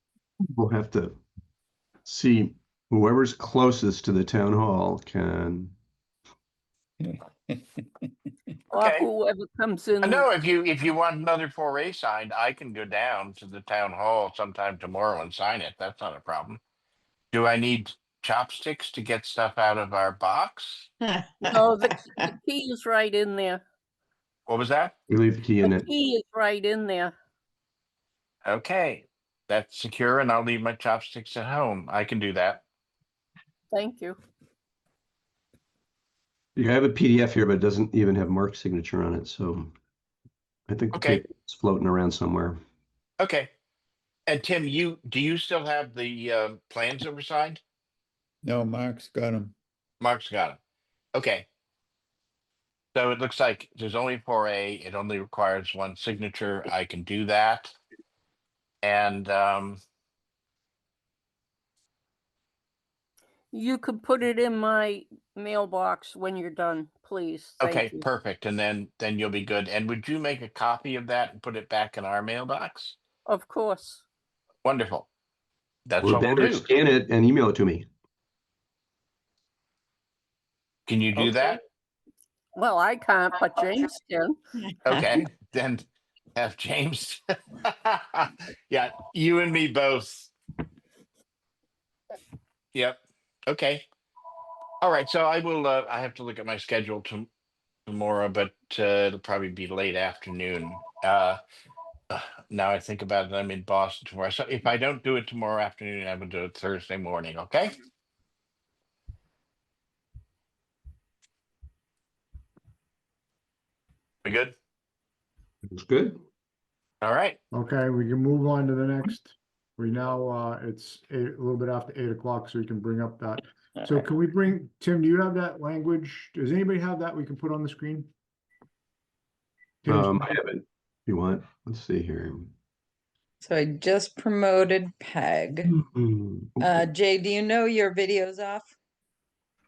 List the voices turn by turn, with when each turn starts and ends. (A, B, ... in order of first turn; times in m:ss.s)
0:00.4-0:01.2 A
0:02.1-0:05.7 A
0:07.0-0:07.8 B
0:08.7-0:09.1 C
0:08.7-0:10.3 D
0:10.0-0:16.6 C
0:17.3-0:20.9 C
0:21.2-0:21.7 E
0:21.4-0:23.6 D
0:24.5-0:24.9 C
0:25.1-0:25.9 A
0:25.6-0:27.1 D
0:28.4-0:32.6 C
0:33.7-0:34.2 D
0:36.6-0:39.7 A
0:40.7-0:42.6 A
0:40.9-0:41.2 C
0:43.2-0:43.5 C
0:44.3-0:47.6 C
0:48.4-0:49.5 B
0:50.0-0:50.6 C
0:51.1-0:51.5 C
0:53.0-0:57.8 C
0:58.8-0:59.8 C
1:03.5-1:08.1 D
1:07.6-1:13.0 C
1:13.3-1:14.0 D
1:14.6-1:15.1 C
1:15.9-1:16.7 C
1:16.0-1:17.9 A
1:20.9-1:21.6 C
1:22.6-1:24.4 D
1:24.8-1:30.3 C
1:32.7-1:33.8 C
1:34.8-1:37.3 C
1:37.9-1:41.4 C
1:42.1-1:47.8 C
1:54.2-1:54.6 C
1:55.7-1:56.2 A
1:57.0-1:57.4 C
1:57.5-2:08.1 F
2:09.8-2:10.3 F
2:09.9-2:12.5 A
2:13.4-2:15.7 E
2:15.8-2:16.9 A
2:16.6-2:18.7 E